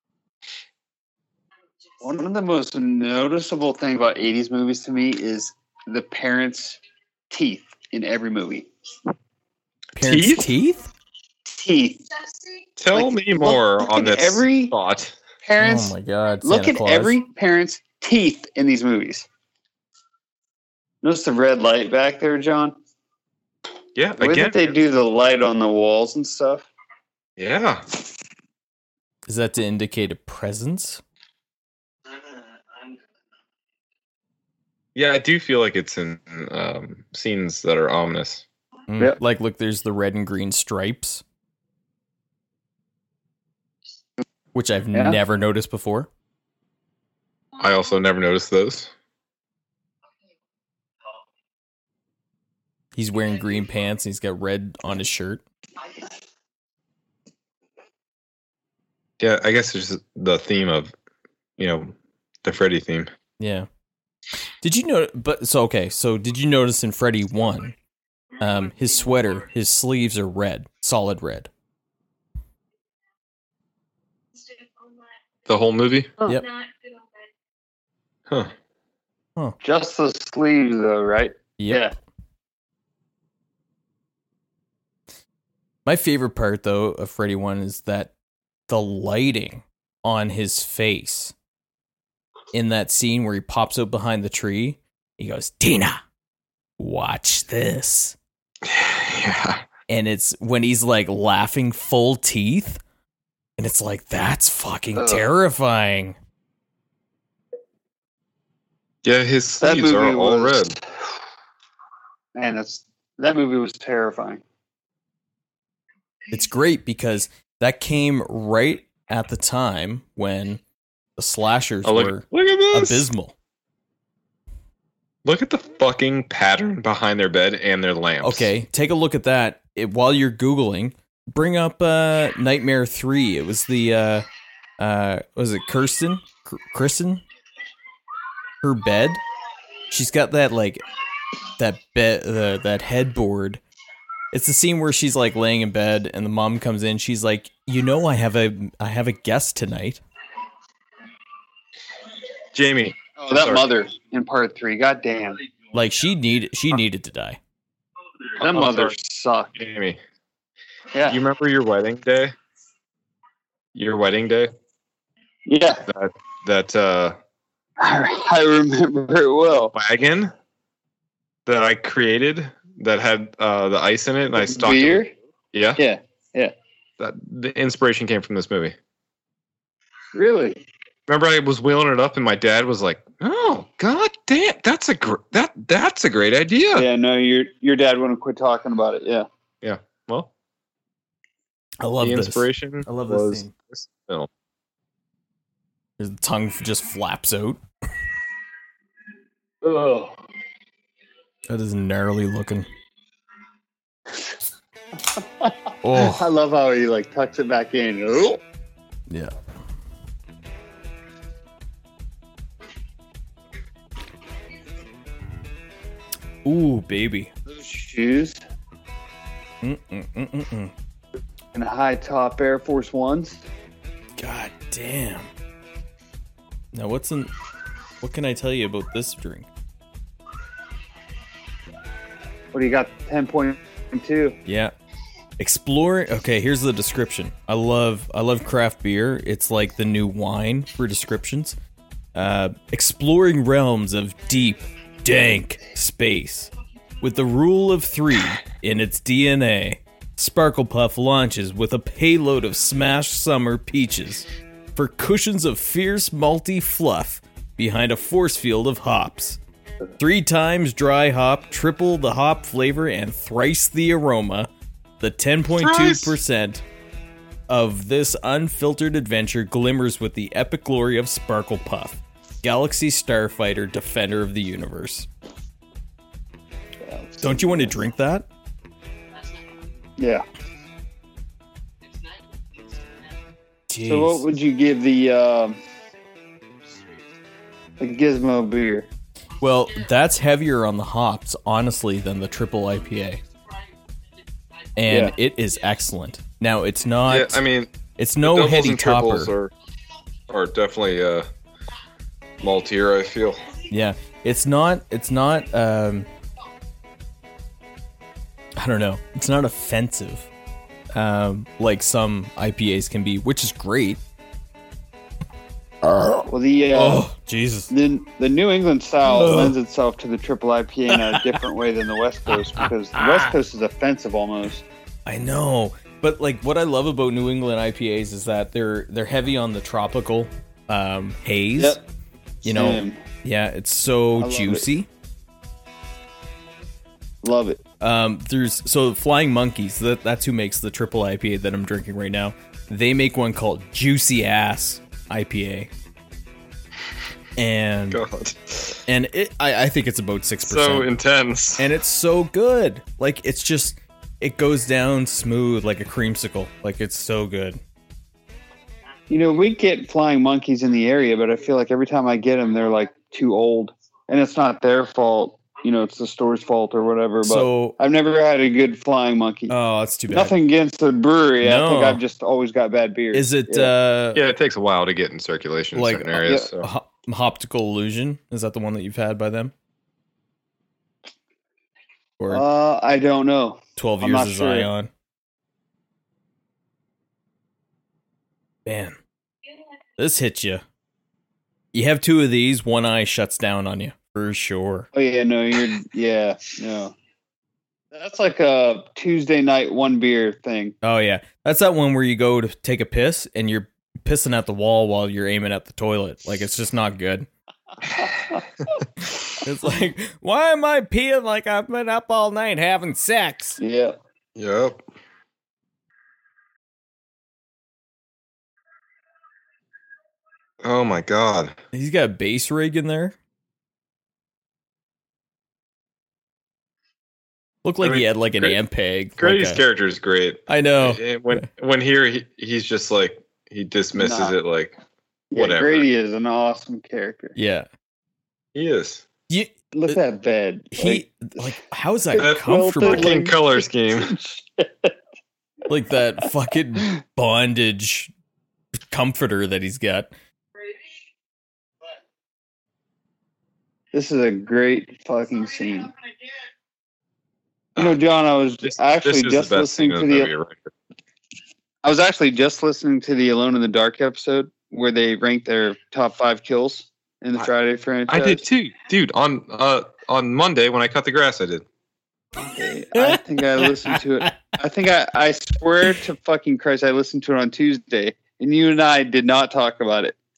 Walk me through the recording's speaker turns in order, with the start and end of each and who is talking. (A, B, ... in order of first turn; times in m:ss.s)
0:02.0-0:06.8 A
0:07.3-0:08.7 A
0:10.0-0:10.9 B
0:10.0-0:10.5 C
0:11.5-0:12.1 A
0:12.8-0:15.2 C
0:12.9-0:14.7 A
0:15.4-0:19.3 A
0:15.6-0:17.2 B
0:21.0-0:22.8 A
0:24.0-0:24.8 C
0:24.2-0:26.7 A
0:27.4-0:27.8 C
0:29.3-0:31.0 B
0:35.0-0:38.4 C
0:38.9-0:41.2 B
0:44.5-0:46.1 B
0:47.6-0:48.9 C
0:53.0-0:55.4 B
0:59.2-1:00.9 C
1:01.6-1:03.1 C
1:03.4-1:03.7 B
1:04.6-1:07.8 B
1:08.4-1:11.5 B
1:15.5-1:16.2 C
1:16.3-1:16.6 B
1:19.6-1:21.9 A
1:21.6-1:21.9 B
1:25.9-1:28.1 B
1:28.7-1:31.3 B
1:32.5-1:36.0 B
1:36.8-1:38.2 B
1:38.6-1:39.6 C
1:39.9-1:42.8 B
1:43.6-1:46.2 B
1:45.0-1:45.2 A
1:49.0-1:50.8 C
1:49.6-1:50.8 A
1:52.4-1:54.4 A
1:56.3-2:00.6 B
2:01.2-2:03.4 B
2:01.8-2:03.1 C
2:05.2-2:08.5 C
2:08.2-2:14.3 B
2:14.8-2:17.2 B
2:18.6-2:19.2 B
2:19.9-2:20.8 B
2:21.6-2:23.6 B
2:24.3-2:30.0 B
2:32.5-2:33.7 C
2:33.2-2:35.4 A
2:35.7-2:37.4 B
2:38.4-2:39.5 A
2:38.5-2:39.0 C
2:39.6-2:40.0 C
2:40.9-2:41.2 A
2:41.1-2:42.4 C
2:43.7-2:44.5 C
2:45.5-2:45.8 A
2:45.9-2:47.2 C
2:47.8-2:49.7 A
2:49.7-2:50.3 C
2:51.5-2:55.8 C
2:54.4-2:55.1 A
2:55.8-2:56.5 A
2:57.0-2:58.8 C
3:00.1-3:00.6 A
3:01.1-3:06.9 C
3:06.7-3:09.3 A
3:09.6-3:10.3 C
3:11.8-3:13.5 B
3:12.0-3:14.3 C
3:16.0-3:17.6 B
3:19.6-3:20.1 A
3:21.5-3:22.7 B
3:25.4-3:28.4 A
3:25.8-3:26.3 B
3:36.4-3:37.3 B
3:37.5-3:38.4 A
3:39.6-3:40.7 B
3:41.5-3:43.4 A
3:44.2-3:45.3 B
3:46.7-3:47.3 B
3:48.0-3:49.5 B
3:52.5-3:54.4 A
3:54.5-3:54.7 B
3:55.4-4:01.6 B
4:02.2-4:06.5 B
4:07.0-4:19.4 B
4:20.0-4:24.5 B
4:25.0-4:26.6 B
4:25.6-4:26.2 C
4:27.5-4:35.1 B
4:36.8-4:37.8 A
4:37.2-4:38.3 B
4:40.0-4:40.2 A
4:43.7-4:44.2 B
4:43.9-4:45.6 A
4:47.8-4:48.9 A
4:49.4-4:53.2 B
4:54.8-4:57.4 B
4:54.9-4:55.1 A
4:57.1-4:59.5 C
4:58.0-4:59.3 B
5:00.3-5:01.3 C
5:02.4-5:03.4 C
5:03.7-5:06.1 B
5:08.6-5:10.3 B
5:10.9-5:14.0 B
5:15.8-5:17.7 B
5:16.3-5:17.0 A
5:17.7-5:24.6 A
5:19.1-5:19.6 B
5:22.6-5:23.3 B
5:25.1-5:31.8 B
5:31.6-5:31.9 A
5:32.4-5:33.0 A
5:32.4-5:34.9 B
5:34.2-5:34.6 A
5:37.2-5:37.6 A
5:37.8-5:45.7 B
5:47.4-5:48.0 B
5:47.9-5:48.8 C
5:48.9-5:50.9 B
5:50.4-5:51.7 C
5:51.6-5:57.6 B
5:59.1-6:09.5 A
6:07.2-6:07.8 B
6:09.5-6:10.4 B
6:10.1-6:13.7 A
6:11.4-6:12.0 B
6:13.1-6:14.2 B
6:14.1-6:16.7 C
6:15.7-6:19.5 B
6:22.2-6:22.4 B
6:22.3-6:24.7 A
6:23.8-6:24.9 B
6:28.7-6:29.0 B
6:30.0-6:30.6 B
6:31.7-6:34.9 B
6:34.9-6:37.0 A
6:37.9-6:40.8 A
6:40.8-6:47.3 B
6:49.4-6:53.6 B
6:53.6-6:54.0 A
6:54.4-6:54.8 C
7:00.6-7:01.6 C
7:01.7-7:03.2 B
7:07.6-7:09.6 B
7:07.8-7:08.6 C
7:09.2-7:14.8 C
7:10.5-7:11.5 B
7:14.0-7:14.4 A
7:15.3-7:17.4 A
7:15.3-7:15.9 C
7:17.4-7:17.7 B
7:18.6-7:19.0 C
7:19.3-7:20.0 B
7:19.7-7:21.4 A
7:20.7-7:23.1 B
7:22.1-7:24.9 A
7:22.2-7:24.1 C
7:25.7-7:28.1 B
7:28.9-7:30.1 B
7:33.9-7:35.9 A
7:37.8-7:40.3 A
7:38.7-7:40.7 C
7:41.8-7:48.4 A
7:48.1-7:51.6 C
7:52.4-8:00.2 A
7:53.0-7:54.4 B